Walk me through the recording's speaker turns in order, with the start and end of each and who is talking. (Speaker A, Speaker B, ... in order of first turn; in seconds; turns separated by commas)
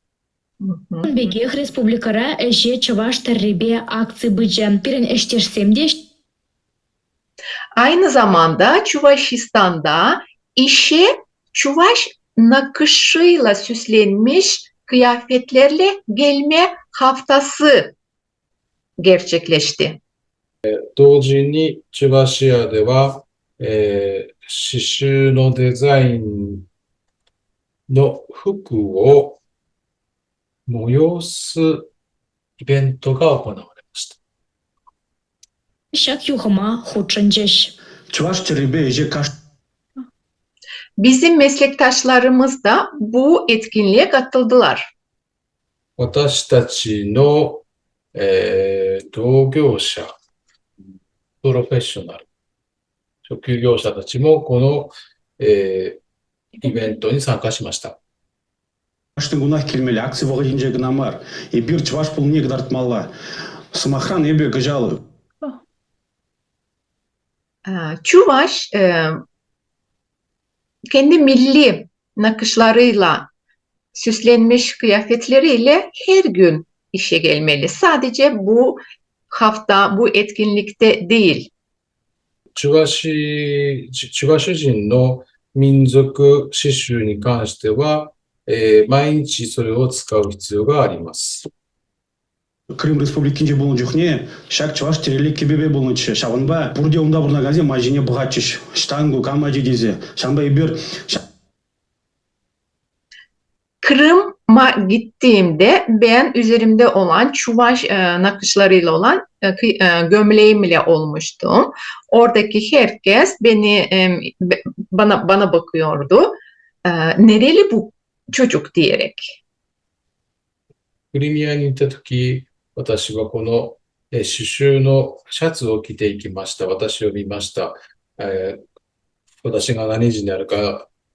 Speaker A: 0.6-1.1, Speaker B: 1.1-6.0, Speaker A: 7.8-17.9, Speaker A: 19.0-20.0, Speaker C: 20.6-26.7, Speaker C: 27.9-29.4, Speaker C: 30.6-31.9, Speaker C: 32.6-34.2, Speaker B: 35.9-37.7, Speaker D: 38.1-39.3, Speaker A: 41.0-44.9, Speaker C: 46.0-50.1, Speaker C: 51.4-52.2, Speaker C: 53.2-56.0, Speaker C: 56.6-57.9, Speaker D: 59.2-63.1, Speaker D: 63.7-65.0, Speaker A: 67.7-69.2, Speaker A: 70.9-73.3, Speaker A: 73.9-81.5, Speaker C: 82.5-91.5, Speaker D: 92.7-101.2, Speaker A: 103.8-119.4, Speaker C: 121.1-128.6, Speaker C: 129.4-130.9